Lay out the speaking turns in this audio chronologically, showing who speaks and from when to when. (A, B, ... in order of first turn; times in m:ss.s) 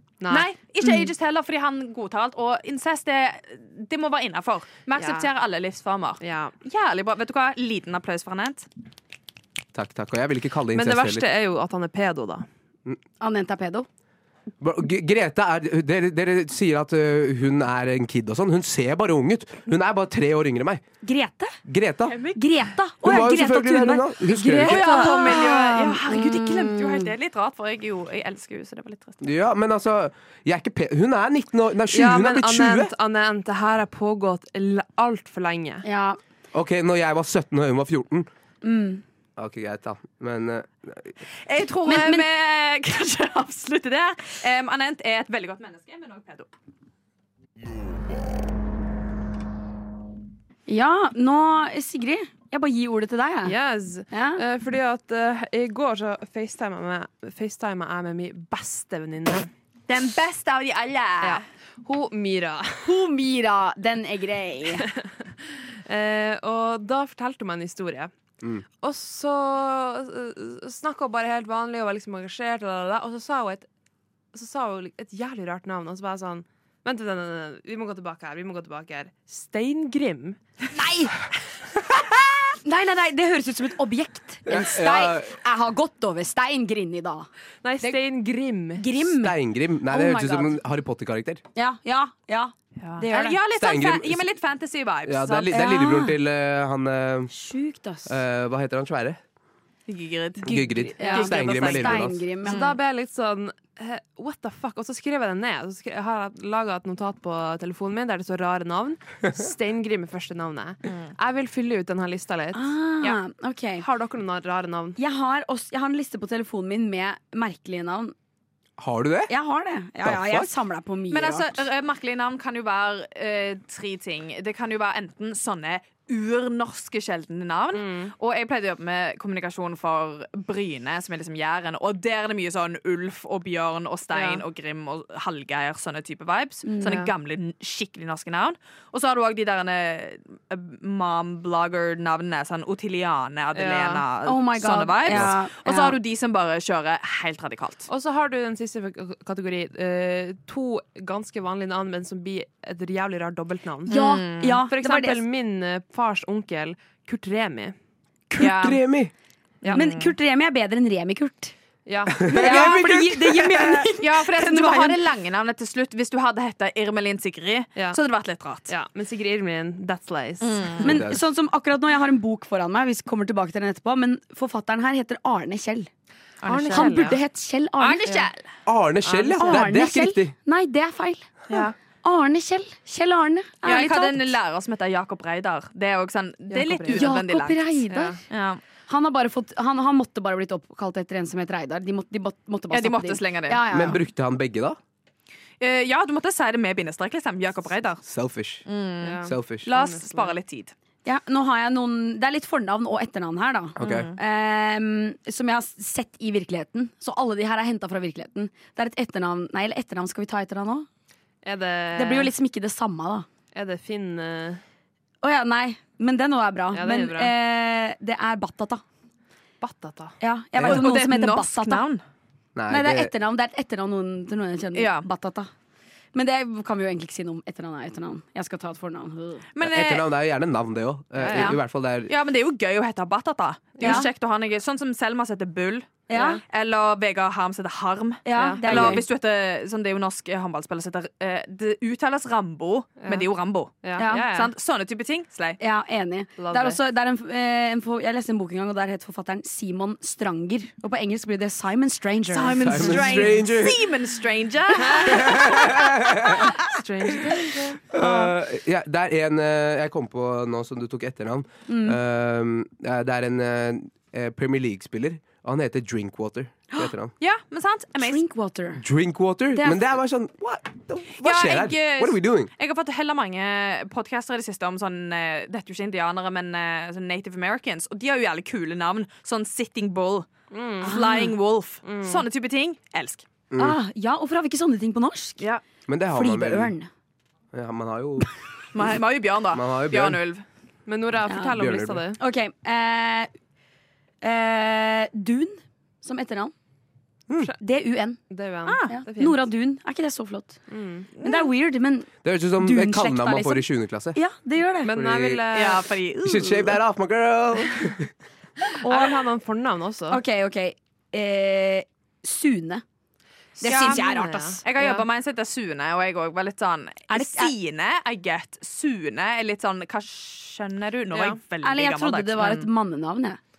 0:00.2-0:00.4 A
0:00.3-0:08.7 B
0:00.8-0:01.1 C
0:05.0-0:05.3 A
0:06.2-0:06.5 A
0:09.7-0:11.2 D
0:10.7-0:12.5 A
0:13.2-0:13.9 C
0:14.6-0:20.8 D
0:21.0-0:21.6 C
0:21.6-0:22.3 D
0:22.1-0:22.4 B
0:22.4-0:27.1 C
0:23.0-0:24.9 D
0:24.6-0:29.2 B
0:24.8-0:25.1 A
0:29.2-0:32.9 D
0:31.9-0:35.8 A
0:35.8-0:36.2 C
0:36.5-0:38.3 D
0:38.6-0:39.0 C
0:39.4-0:41.2 D
0:41.4-0:46.5 B
0:41.8-0:42.2 C
0:50.7-0:53.6 C
0:53.4-0:59.5 A
0:54.1-0:54.4 C
0:59.9-1:01.4 B
1:01.2-1:03.0 A
1:02.8-1:04.9 C
1:04.8-1:05.3 A
1:05.8-1:08.1 A
1:08.8-1:13.7 A
1:14.3-1:20.4 A
1:20.7-1:21.2 C
1:22.6-1:27.3 C
1:24.5-1:25.4 D
1:27.6-1:28.9 A
1:28.8-1:30.6 C
1:29.0-1:31.4 D
1:31.5-1:33.4 C
1:32.8-1:35.5 B
1:33.5-1:34.3 D
1:35.0-1:37.3 D
1:35.5-1:36.1 C
1:37.3-1:38.2 C
1:38.0-1:39.2 D
1:39.9-1:42.8 B
1:40.4-1:42.2 D
1:40.5-1:42.6 C
1:42.4-1:52.7 A
1:52.5-1:53.8 C
1:53.8-1:55.0 A
1:55.0-1:58.1 C
1:58.8-1:59.3 D
1:59.3-2:01.6 C
2:00.0-2:00.5 D
2:01.1-2:27.9 B
2:07.7-2:08.1 A
2:14.1-2:14.4 A
2:16.6-2:17.0 C
2:16.8-2:17.1 A
2:23.5-2:24.0 A
2:24.2-2:26.0 C
2:25.1-2:25.3 D
2:27.9-2:34.0 A
2:33.9-2:34.6 B
2:33.9-2:35.2 C
2:34.6-2:37.7 A
2:38.3-2:39.1 D
2:38.4-2:38.8 B
2:39.6-2:40.1 B
2:39.7-2:41.5 C
2:41.8-2:42.6 A
2:42.2-2:43.8 D
2:42.2-2:45.0 C
2:44.0-2:48.7 B
2:48.7-2:51.0 A
2:50.4-2:51.0 B
2:50.8-2:55.9 C
2:50.8-2:51.2 D
2:56.4-2:57.2 B
2:56.4-2:57.2 A
2:56.7-2:58.2 C
2:57.8-2:58.4 B
2:58.6-3:00.3 D
2:59.0-2:59.6 A
2:59.4-3:01.4 C
3:01.5-3:01.7 B
3:02.0-3:04.3 C
3:03.6-3:08.6 B
3:06.5-3:07.1 A
3:06.9-3:08.2 C
3:07.9-3:08.2 A
3:08.9-3:14.0 C
3:12.7-3:13.6 B
3:13.7-3:14.8 D
3:15.6-3:18.0 B
3:18.0-3:18.6 D
3:18.7-3:20.7 B
3:19.0-3:20.4 A
3:19.2-3:19.7 D
3:21.0-3:30.9 C
3:23.8-3:24.1 D
3:23.8-3:24.2 B
3:31.4-3:32.3 A
3:32.0-3:33.3 C
3:33.5-3:34.6 A
3:35.2-3:38.8 C
3:36.7-3:37.3 A
3:39.6-3:40.2 A
3:40.2-3:41.8 C
3:40.5-3:40.9 D
3:40.6-3:42.0 B
3:42.5-3:43.1 D
3:42.7-3:45.5 C
3:44.7-3:45.1 B
3:46.1-3:49.4 C
3:49.5-3:50.0 B
3:49.6-3:52.1 D
3:51.2-3:51.5 A
3:51.3-3:51.6 C
3:52.1-4:05.6 B
3:53.8-3:54.0 A
3:53.8-3:54.1 C
3:56.1-3:56.4 C
3:56.1-3:56.4 A
3:58.2-3:59.0 C
3:58.4-3:58.9 A
3:58.7-3:59.0 D
4:03.0-4:03.3 A
4:03.8-4:04.5 A
4:04.0-4:04.3 C
4:05.6-4:13.1 C
4:06.4-4:06.8 A
4:12.3-4:15.7 B
4:12.6-4:13.9 D
4:14.8-4:15.2 A
4:14.9-4:17.3 D
4:16.6-4:17.9 A
4:17.9-4:27.1 D
4:18.0-4:18.3 C
4:21.7-4:22.0 C
4:27.2-4:28.2 B
4:28.0-4:28.8 C
4:28.8-4:32.5 D
4:29.5-4:29.8 C
4:31.2-4:40.3 B
4:40.5-4:41.0 A
4:40.8-4:43.2 B
4:40.8-4:41.3 C
4:41.8-4:42.2 A
4:43.5-4:43.8 D
4:43.6-4:45.4 C
4:45.9-4:46.7 D
4:46.1-4:46.9 C
4:47.5-4:48.3 D
4:48.7-4:50.4 B
4:49.5-4:50.2 D
4:50.8-4:52.2 A
4:51.3-4:51.6 C
4:51.5-4:52.0 D
4:52.2-4:53.3 C
4:54.2-4:56.5 C
4:57.6-4:58.2 C
4:58.3-4:59.4 A
4:58.9-5:00.6 C
5:00.7-5:01.1 A
5:01.2-5:04.9 C
5:02.2-5:04.2 D
5:04.8-5:05.9 A
5:04.8-5:05.4 D
5:05.5-5:06.8 B
5:06.2-5:08.1 D
5:08.8-5:09.2 C
5:08.8-5:10.2 A
5:10.1-5:12.8 C
5:13.6-5:14.6 C
5:13.6-5:15.0 A
5:13.6-5:22.7 B
5:17.1-5:17.5 C
5:21.1-5:21.4 A
5:21.6-5:23.4 C